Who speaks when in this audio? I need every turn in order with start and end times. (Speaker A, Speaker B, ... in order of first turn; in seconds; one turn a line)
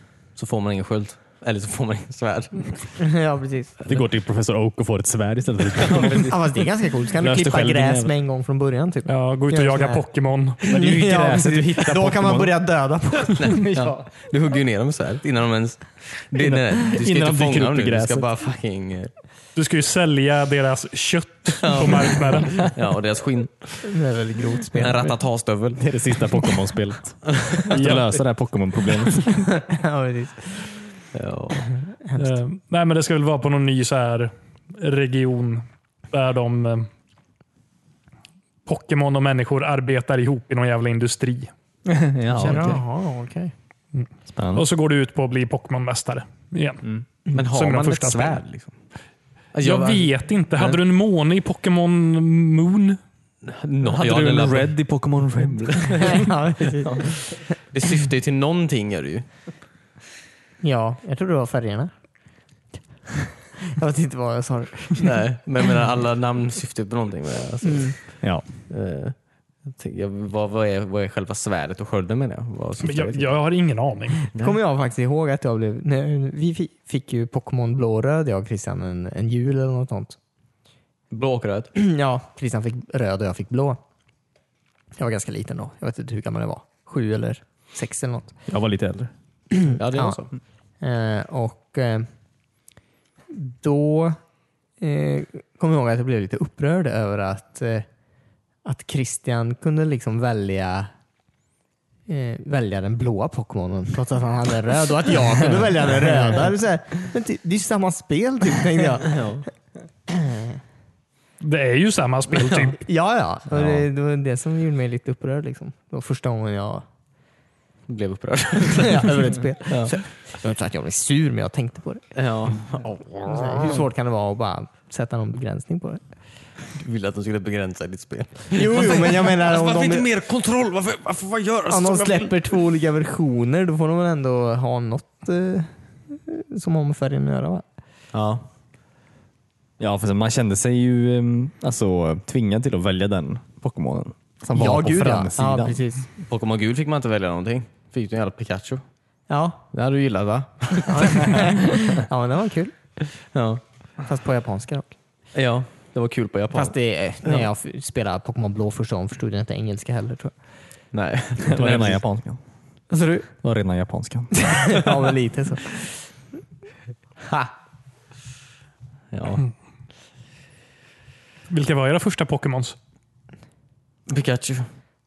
Speaker A: 0.3-3.0
Speaker B: 3.0-3.7
Speaker C: 3.9-6.3
Speaker A: 5.8-6.3
Speaker B: 6.1-10.0
Speaker C: 7.2-8.1
Speaker D: 9.1-10.8
Speaker B: 10.6-13.6
Speaker C: 10.7-12.6
Speaker A: 13.4-19.1
Speaker C: 13.6-14.0
Speaker C: 16.4-18.3
Speaker D: 19.5-22.7
Speaker A: 21.6-23.8
Speaker B: 23.8-25.1
Speaker A: 24.7-25.8
Speaker C: 25.8-29.4
Speaker A: 27.3-27.8
Speaker D: 27.7-28.2
Speaker B: 29.6-30.7
Speaker A: 31.1-31.7
Speaker B: 32.0-32.4
Speaker D: 32.2-36.9
Speaker D: 38.6-41.5
Speaker C: 41.9-42.8
Speaker B: 42.4-43.5
Speaker D: 43.9-48.4
Speaker C: 44.3-44.6
Speaker A: 47.3-48.7
Speaker A: 49.5-50.8
Speaker D: 49.6-53.0
Speaker A: 53.4-54.7
Speaker C: 53.9-56.2
Speaker A: 55.7-56.2
Speaker B: 56.0-57.2
Speaker A: 56.8-59.2
Speaker B: 60.6-61.9
Speaker B: 63.6-65.1
Speaker A: 65.0-69.1
Speaker B: 67.6-67.9
Speaker A: 69.7-73.3
Speaker D: 72.8-74.2
Speaker A: 74.3-74.6
Speaker B: 74.4-80.2
Speaker A: 81.1-81.7
Speaker B: 81.8-83.8
Speaker B: 85.0-88.3
Speaker C: 88.5-89.1
Speaker B: 89.5-90.2
Speaker A: 89.8-90.3
Speaker B: 90.8-92.1
Speaker B: 93.3-94.2
Speaker B: 94.8-97.9
Speaker B: 98.6-100.9
Speaker B: 102.1-109.2
Speaker A: 109.0-109.4
Speaker B: 110.1-110.6
Speaker D: 111.4-112.8
Speaker A: 112.3-112.7
Speaker B: 112.8-116.8
Speaker A: 117.9-119.9
Speaker B: 118.8-122.0
Speaker A: 122.1-123.8
Speaker B: 123.2-126.0
Speaker A: 126.7-132.4
Speaker B: 128.5-130.1
Speaker B: 131.7-137.6
Speaker A: 138.1-138.4
Speaker C: 139.8-145.8
Speaker B: 144.5-146.1
Speaker A: 146.2-148.8
Speaker B: 149.3-149.6
Speaker A: 149.7-151.5
Speaker B: 150.9-152.7
Speaker A: 153.3-153.6
Speaker B: 154.0-154.9
Speaker A: 155.3-157.5
Speaker B: 156.5-160.3
Speaker A: 160.9-162.0
Speaker C: 161.4-162.4
Speaker B: 162.9-163.3
Speaker C: 163.4-164.5
Speaker B: 164.4-165.8
Speaker A: 169.1-169.5
Speaker D: 171.5-172.8
Speaker A: 174.1-174.7